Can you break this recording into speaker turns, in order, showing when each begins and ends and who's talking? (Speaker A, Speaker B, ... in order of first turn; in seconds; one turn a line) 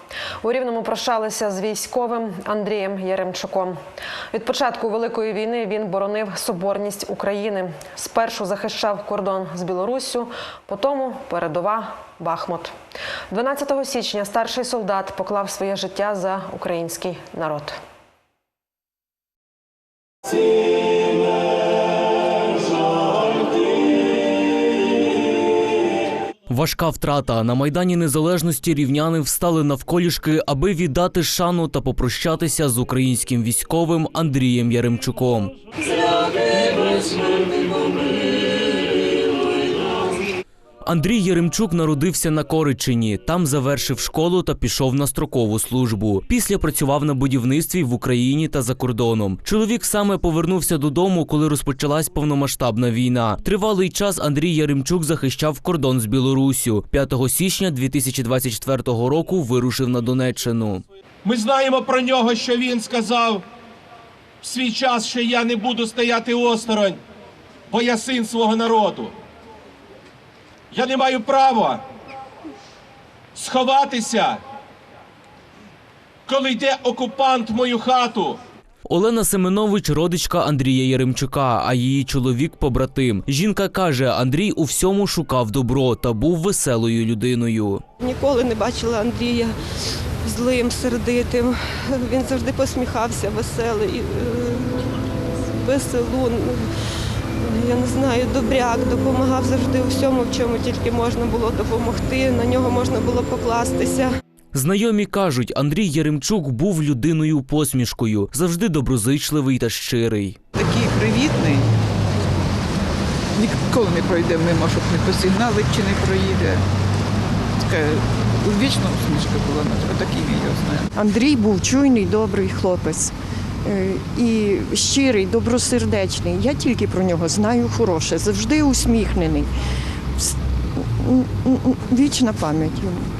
Speaker A: 0.4-3.8
Speaker A: 4.3-12.7
Speaker A: 13.3-17.8
Speaker B: 26.5-35.5
Speaker C: 36.5-37.0
Speaker B: 40.9-60.8
Speaker D: 61.2-63.4
Speaker D: 64.4-67.0
Speaker D: 67.7-69.1
Speaker D: 70.7-71.8
Speaker D: 73.3-74.4
Speaker D: 76.3-78.4
Speaker B: 78.9-87.8
Speaker C: 88.0-89.5
Speaker C: 90.2-94.9
Speaker C: 95.5-96.7
Speaker C: 97.4-104.1
Speaker B: 104.5-110.4
Speaker E: 110.5-111.8
Speaker E: 113.3-116.6
Speaker E: 117.6-120.9
Speaker F: 120.9-123.1
Speaker F: 123.6-129.5
Speaker F: 130.2-133.1